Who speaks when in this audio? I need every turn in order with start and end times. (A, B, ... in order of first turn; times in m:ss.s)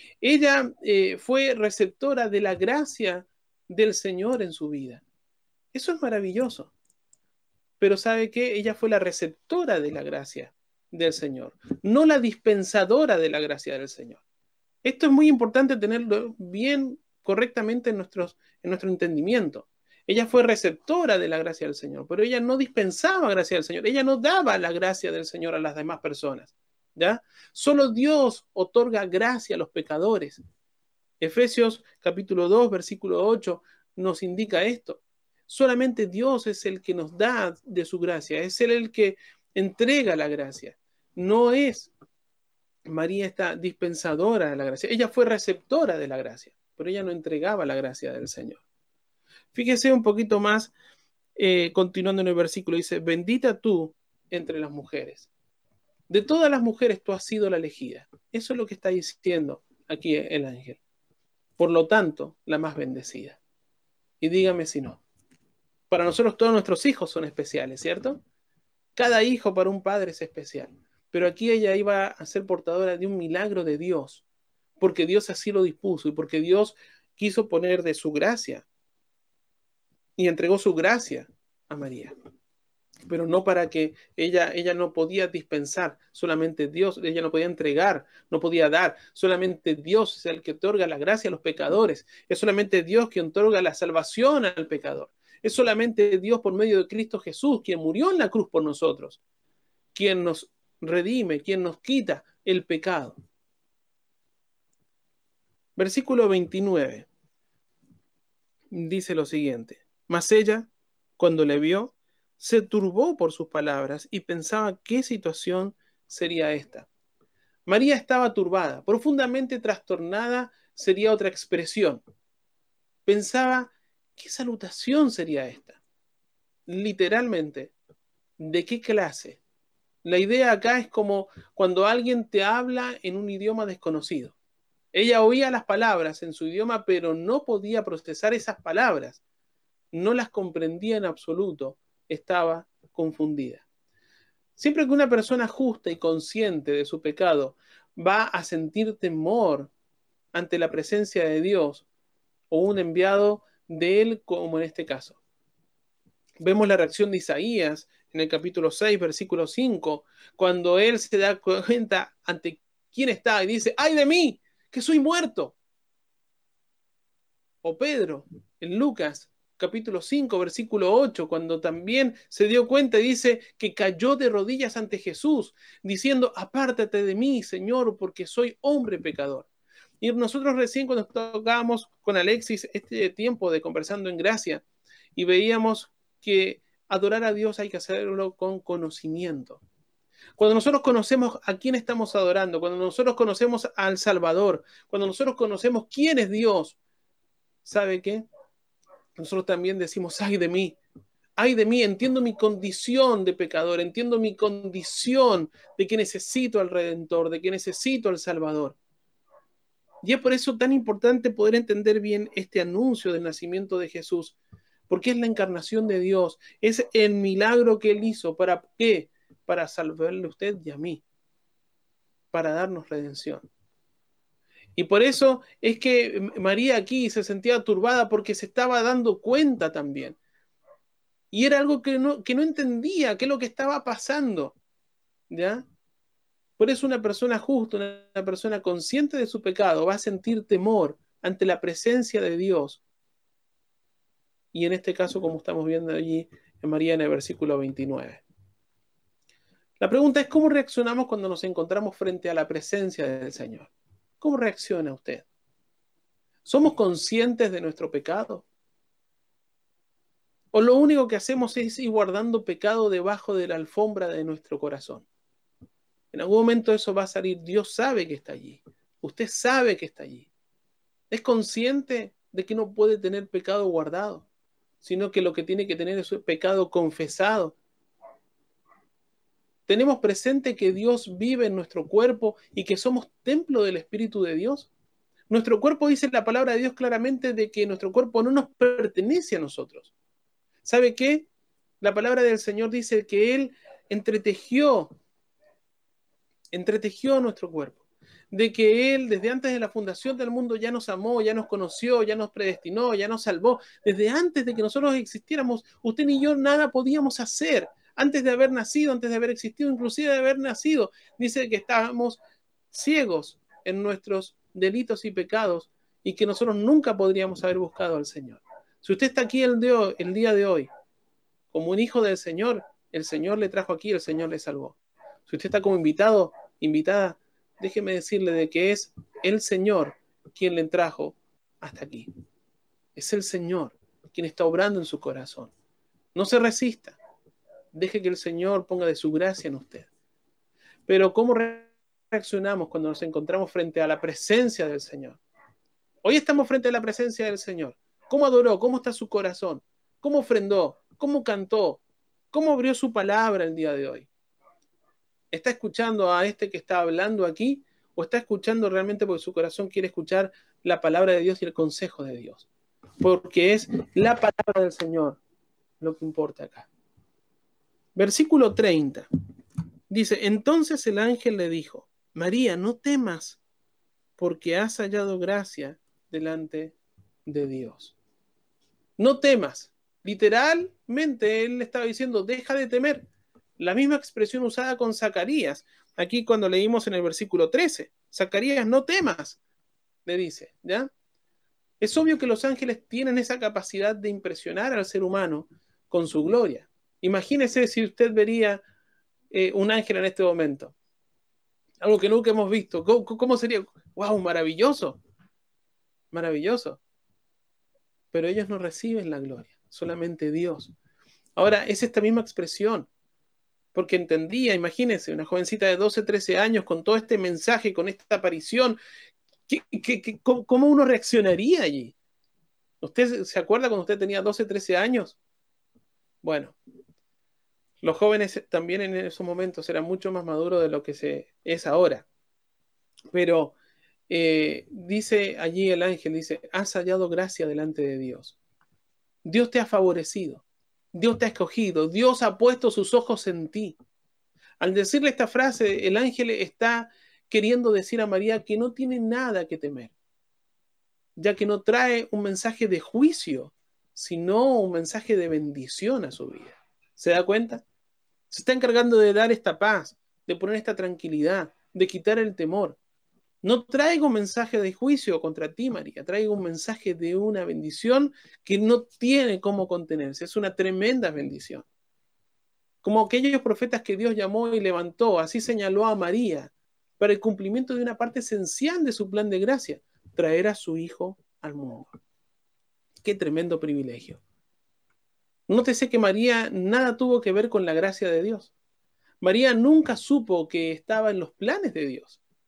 0:00.2-0:05.0 A
0:05.7-0:06.7 A
0:07.8-0:14.2 A
0:14.8-0:30.4 A
0:31.2-0:41.9 A
0:42.9-0:48.6 A
0:49.5-0:50.7 A
0:51.4-0:55.3 A
0:56.1-1:00.8 A
1:01.6-1:03.4 A
1:04.2-1:05.0 A
1:05.9-1:08.2 A
1:09.0-1:14.2 A
1:14.8-1:18.6 A
1:20.2-1:22.1 A
1:23.1-1:39.2 A
1:39.9-1:43.2 A
1:45.8-1:47.1 A
1:48.7-1:56.9 A
1:57.7-2:02.0 A
2:03.0-2:05.8 A
2:06.7-2:07.7 A
2:08.4-2:09.4 A
2:10.0-2:14.4 A
2:14.9-2:19.2 A
2:19.9-2:23.6 A
2:24.6-2:29.7 A
2:30.3-2:31.8 A
2:32.5-2:35.2 A
2:36.4-2:45.6 A
2:47.6-2:59.5 A
3:00.0-3:04.6 A
3:05.1-3:09.6 A
3:10.4-3:16.8 A
3:17.6-3:18.2 A
3:19.2-3:20.8 A
3:21.4-3:28.8 A
3:30.0-3:34.4 A
3:34.9-3:41.0 A
3:42.3-3:43.4 A
3:44.8-3:50.2 A
3:51.3-3:54.6 A
3:55.3-3:55.6 A
3:56.6-4:02.8 A
4:04.5-4:08.2 A
4:09.8-4:15.2 A
4:16.4-4:18.4 A
4:20.5-4:25.0 A
4:26.1-4:30.3 A
4:31.1-4:34.3 A
4:34.8-4:37.6 A
4:39.7-4:44.7 A
4:45.3-4:49.9 A
4:50.6-4:51.3 A
4:51.8-4:54.9 A
4:56.5-5:12.2 A
5:12.7-5:20.7 A
5:21.5-5:32.1 A
5:33.0-5:35.5 A
5:36.1-5:37.0 A
5:37.7-5:39.9 A
5:40.9-5:45.2 A
5:46.0-5:54.1 A
5:55.3-6:02.5 A
6:03.0-6:05.2 A
6:05.8-6:06.7 A
6:08.0-6:09.0 A
6:09.9-6:13.4 A
6:14.2-6:17.9 A
6:19.0-6:23.0 A
6:23.6-6:29.4 A
6:30.0-6:30.9 A
6:31.8-6:38.6 A
6:39.3-6:40.7 A
6:41.8-6:45.0 A
6:46.1-6:46.8 A
6:48.1-6:50.7 A
6:51.4-6:52.9 A
6:53.7-6:58.8 A
6:59.5-7:02.0 A
7:02.8-7:05.2 A
7:06.2-7:06.6 A
7:07.8-7:12.1 A
7:13.1-7:13.5 A
7:14.1-7:18.4 A
7:19.2-7:23.8 A
7:24.6-7:29.9 A
7:31.2-7:37.6 A
7:38.3-7:42.8 A
7:43.4-7:51.6 A
7:52.8-8:01.9 A
8:03.0-8:04.2 A
8:05.5-8:08.5 A
8:09.2-8:12.2 A